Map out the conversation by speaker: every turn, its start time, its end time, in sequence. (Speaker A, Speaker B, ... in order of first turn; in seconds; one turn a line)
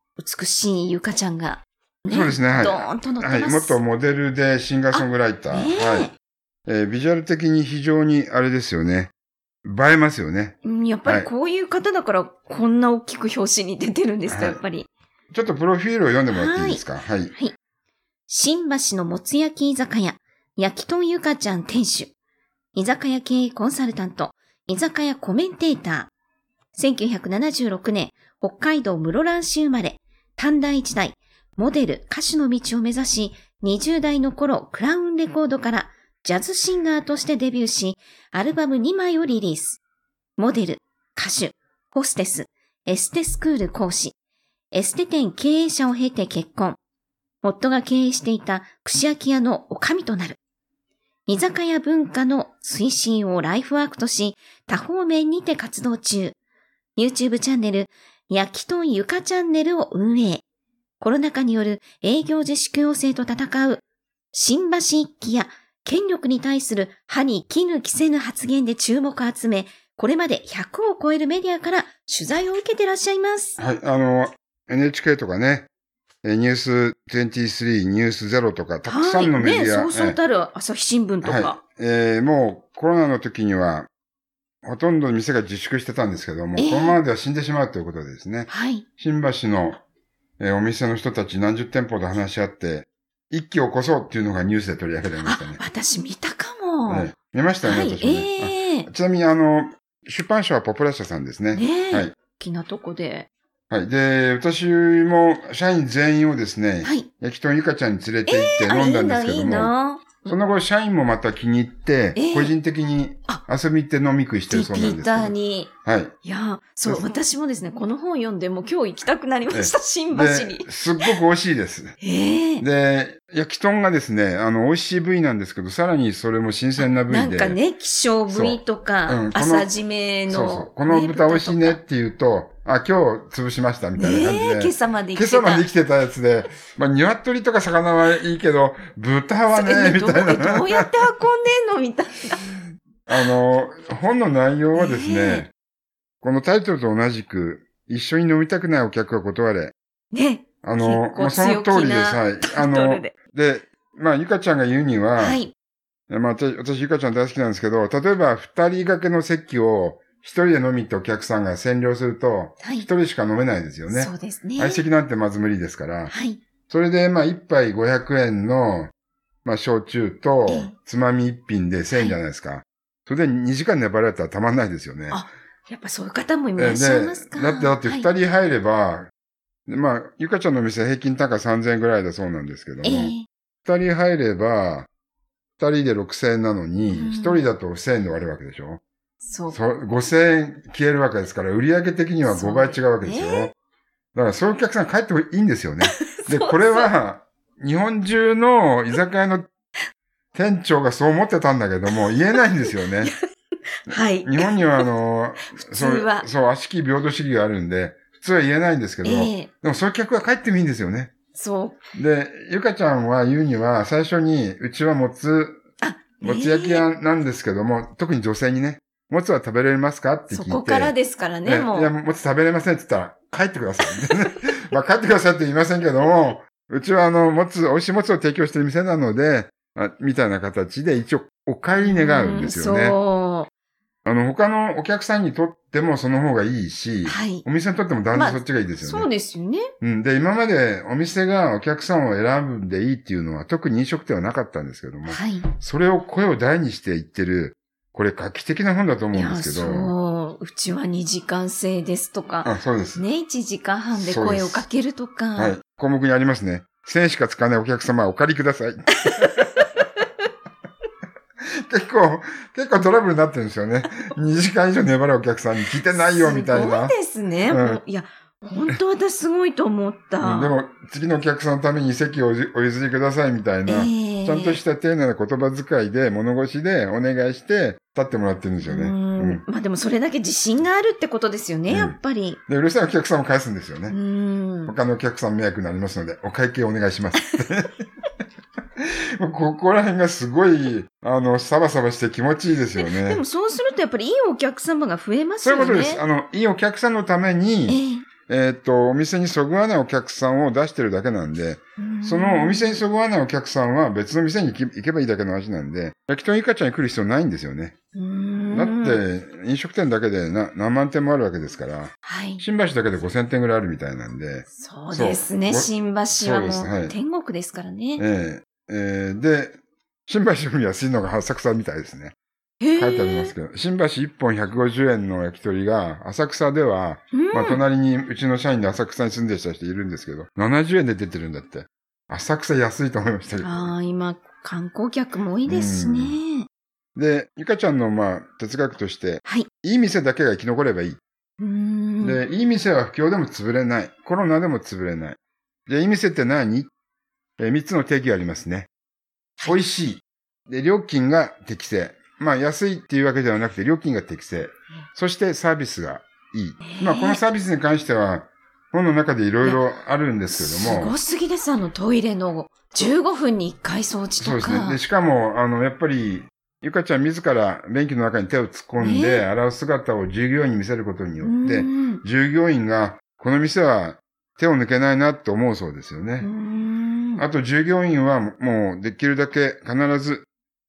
Speaker A: 0.2-3.8
Speaker B: 2.1-6.1
Speaker A: 4.9-6.1
Speaker B: 6.7-9.1
Speaker B: 9.6-11.3
Speaker A: 10.6-14.9
Speaker B: 14.3-14.6
Speaker B: 15.3-17.3
Speaker A: 16.3-17.5
Speaker A: 18.3-22.1
Speaker A: 22.8-26.1
Speaker A: 26.7-39.8
Speaker A: 40.4-44.2
Speaker A: 44.7-46.8
Speaker A: 47.4-50.4
Speaker A: 51.3-56.4
Speaker A: 57.0-60.4
Speaker A: 61.0-73.6
Speaker B: 73.6-75.7
Speaker B: 76.2-80.2
Speaker A: 78.8-81.6
Speaker B: 81.2-83.9
Speaker B: 84.6-89.8
Speaker A: 86.6-87.0
Speaker A: 88.5-88.8
Speaker B: 90.4-95.6
Speaker A: 95.2-97.1
Speaker B: 96.9-102.1
Speaker A: 97.6-98.9
Speaker A: 101.5-103.3
Speaker B: 103.7-109.7
Speaker A: 106.8-107.1
Speaker A: 108.3-110.4
Speaker B: 110.2-115.3
Speaker A: 112.2-112.5
Speaker A: 114.5-115.7
Speaker B: 115.8-116.1
Speaker A: 116.2-121.1
Speaker B: 119.5-122.0
Speaker A: 122.0-122.7
Speaker B: 122.6-127.6
Speaker A: 127.0-131.8
Speaker B: 128.3-129.7
Speaker B: 130.3-140.9
Speaker A: 133.9-135.7
Speaker A: 139.5-142.5
Speaker B: 143.1-145.5
Speaker A: 144.7-145.5
Speaker B: 146.2-149.8
Speaker A: 150.1-153.1
Speaker B: 150.6-155.4
Speaker A: 155.2-155.5
Speaker B: 156.1-166.1
Speaker A: 162.6-162.9
Speaker A: 163.9-164.8
Speaker A: 166.1-166.4
Speaker B: 166.7-168.9
Speaker B: 169.4-175.2
Speaker A: 170.5-170.7
Speaker A: 175.1-178.1
Speaker B: 176.6-179.1
Speaker B: 179.7-183.1
Speaker A: 182.8-183.3
Speaker B: 183.7-184.9
Speaker B: 185.6-188.8
Speaker A: 186.9-187.5
Speaker A: 189.2-189.6
Speaker B: 189.5-193.5
Speaker A: 192.2-193.5
Speaker B: 194.2-199.5
Speaker A: 195.9-196.9
Speaker B: 200.3-203.1
Speaker A: 202.7-203.1
Speaker A: 203.9-204.9
Speaker B: 204.2-211.1
Speaker A: 205.5-206.3
Speaker A: 209.0-209.5
Speaker A: 211.3-211.8
Speaker B: 211.9-215.6
Speaker A: 215.8-216.9
Speaker B: 216.2-220.9
Speaker A: 220.3-221.9
Speaker B: 221.5-233.0
Speaker A: 231.7-233.5
Speaker B: 234.1-239.1
Speaker A: 237.1-237.4
Speaker A: 238.1-239.7
Speaker B: 239.8-249.9
Speaker A: 245.1-245.5
Speaker A: 249.1-255.6
Speaker B: 252.4-253.0
Speaker B: 253.9-254.7
Speaker B: 255.4-259.3
Speaker A: 259.1-259.4
Speaker B: 261.6-267.0
Speaker A: 265.9-270.5
Speaker B: 267.5-267.8
Speaker B: 270.2-279.4
Speaker A: 273.7-274.6
Speaker A: 278.6-282.4
Speaker B: 281.7-282.0
Speaker B: 282.5-284.0
Speaker A: 283.9-284.8
Speaker B: 284.7-287.9
Speaker B: 288.8-293.2
Speaker A: 292.8-296.0
Speaker B: 295.4-307.8
Speaker A: 297.7-298.1
Speaker A: 301.8-302.8
Speaker A: 307.9-309.0
Speaker B: 308.5-316.9
Speaker A: 312.0-312.4
Speaker A: 314.5-318.0
Speaker B: 318.0-322.2
Speaker A: 322.6-323.3
Speaker B: 322.8-333.7
Speaker A: 327.1-327.6
Speaker A: 333.4-336.5
Speaker B: 335.5-336.2
Speaker B: 337.0-341.0
Speaker A: 341.4-342.2
Speaker B: 342.0-346.7
Speaker B: 347.4-348.7
Speaker B: 349.4-361.0
Speaker A: 356.6-357.2
Speaker A: 360.4-364.8
Speaker B: 364.2-376.3
Speaker A: 368.8-369.3
Speaker A: 371.2-372.0
Speaker A: 376.2-377.2
Speaker B: 377.2-380.3